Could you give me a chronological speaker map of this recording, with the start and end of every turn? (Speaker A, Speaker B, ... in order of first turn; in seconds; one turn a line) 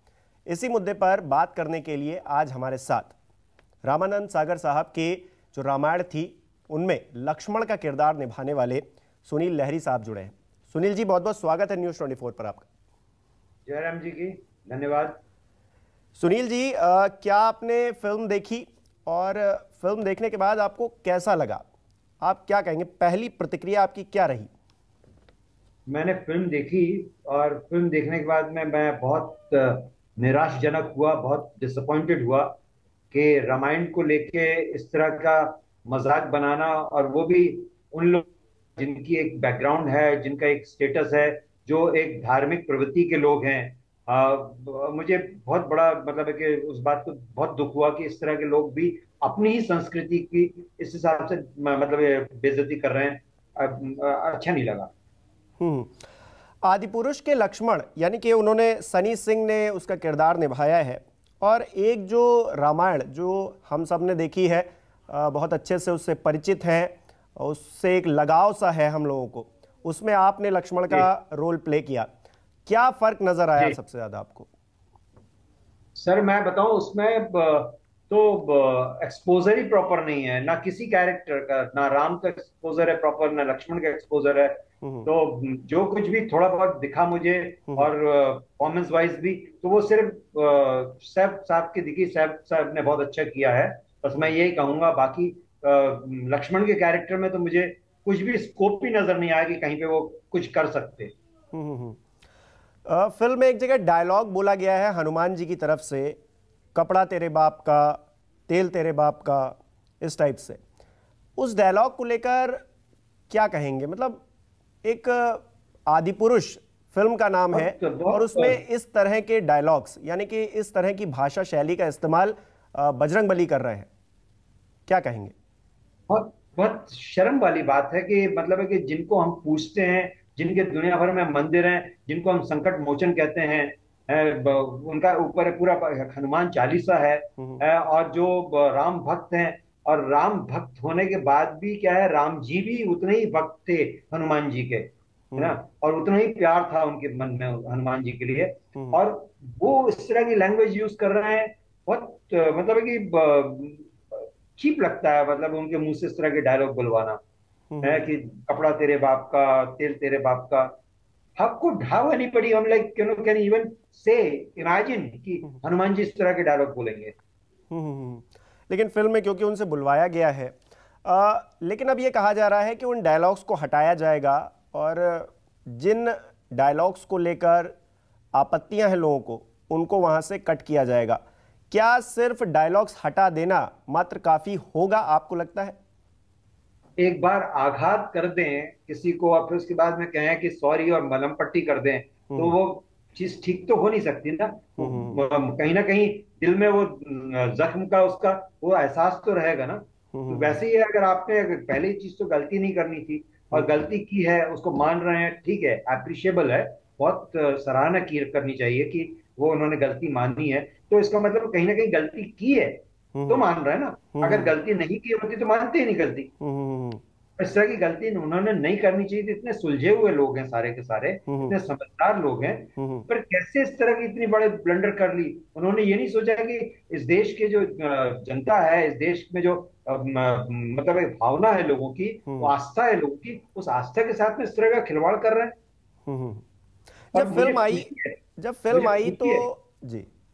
Speaker A: 0.5-3.1
Speaker A: 3.8-12.7
Speaker B: 13.7-15.2
Speaker A: 16.2-21.6
Speaker A: 22.2-24.5
Speaker B: 25.9-32.6
Speaker B: 33.1-54.9
Speaker A: 55.6-55.9
Speaker A: 56.6-72.1
Speaker A: 72.7-74.5
Speaker B: 76.0-101.1
Speaker A: 101.5-102.0
Speaker A: 102.9-106.2
Speaker A: 106.8-110.6
Speaker A: 111.4-112.6
Speaker A: 113.3-114.2
Speaker A: 114.8-123.9
Speaker B: 117.5-118.6
Speaker A: 124.9-125.3
Speaker B: 126.1-157.2
Speaker A: 157.7-158.1
Speaker B: 157.8-160.7
Speaker B: 161.4-167.1
Speaker A: 167.7-177.7
Speaker A: 178.3-181.2
Speaker A: 181.7-185.8
Speaker B: 187.0-216.3
Speaker A: 194.8-195.2
Speaker A: 200.1-200.6
Speaker A: 213.2-213.4
Speaker A: 214.2-214.5
Speaker A: 216.4-217.0
Speaker B: 217.4-235.5
Speaker A: 221.3-221.6
Speaker A: 222.8-223.1
Speaker A: 236.1-236.4
Speaker A: 237.1-240.1
Speaker B: 237.1-238.2
Speaker B: 238.7-239.5